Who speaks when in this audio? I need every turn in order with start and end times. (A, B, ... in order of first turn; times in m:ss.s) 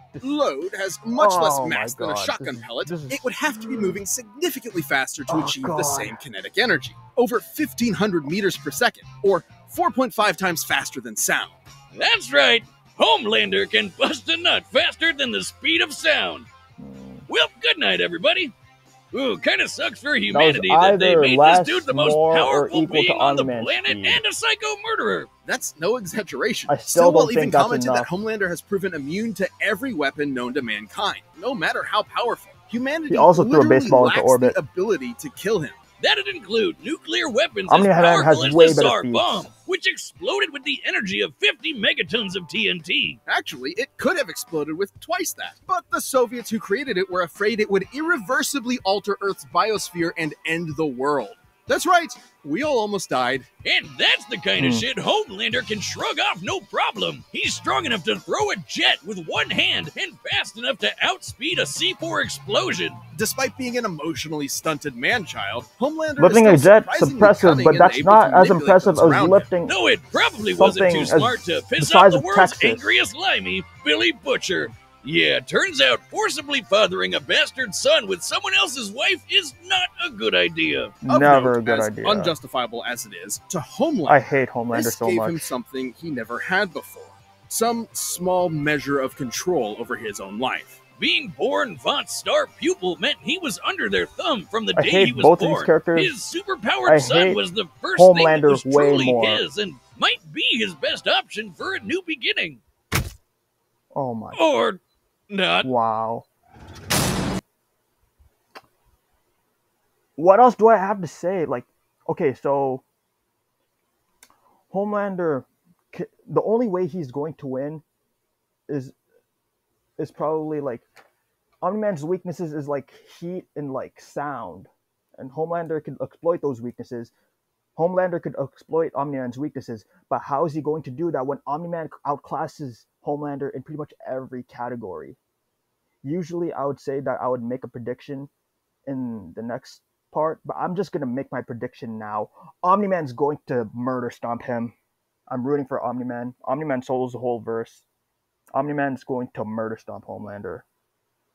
0:00.2-0:11.6 A
0:01.1-0:04.0 B
0:05.3-0:06.2 B
0:11.9-0:16.5 C
0:16.8-0:17.3 B
0:17.3-0:18.5 C
0:19.1-0:25.3 C
0:20.3-0:24.2 B
0:25.4-0:35.8 A
0:26.7-0:28.1 B
0:33.1-0:34.6 B
0:36.0-0:43.2 C
0:37.7-0:39.5 B
0:43.2-0:53.5 A
0:53.6-1:03.0 C
0:54.6-0:54.8 B
1:03.1-1:09.5 A
1:06.2-1:09.7 B
1:09.6-1:21.0 C
1:10.6-1:12.9 B
1:21.0-1:22.3 B
1:21.1-1:30.8 A
1:24.0-1:25.5 B
1:31.0-1:42.6 C
1:34.7-1:36.2 B
1:36.8-1:37.4 B
1:37.9-1:39.4 B
1:43.9-1:44.4 B
1:44.3-1:45.7 C
1:45.6-1:46.3 B
1:50.2-1:52.8 B
1:54.7-1:57.8 B
1:58.7-1:58.9 B
2:00.0-2:00.8 B
2:01.6-2:07.1 B
2:07.8-2:15.2 B
2:16.0-2:18.3 B
2:18.9-2:24.7 B
2:25.3-2:27.8 B
2:28.5-2:30.6 B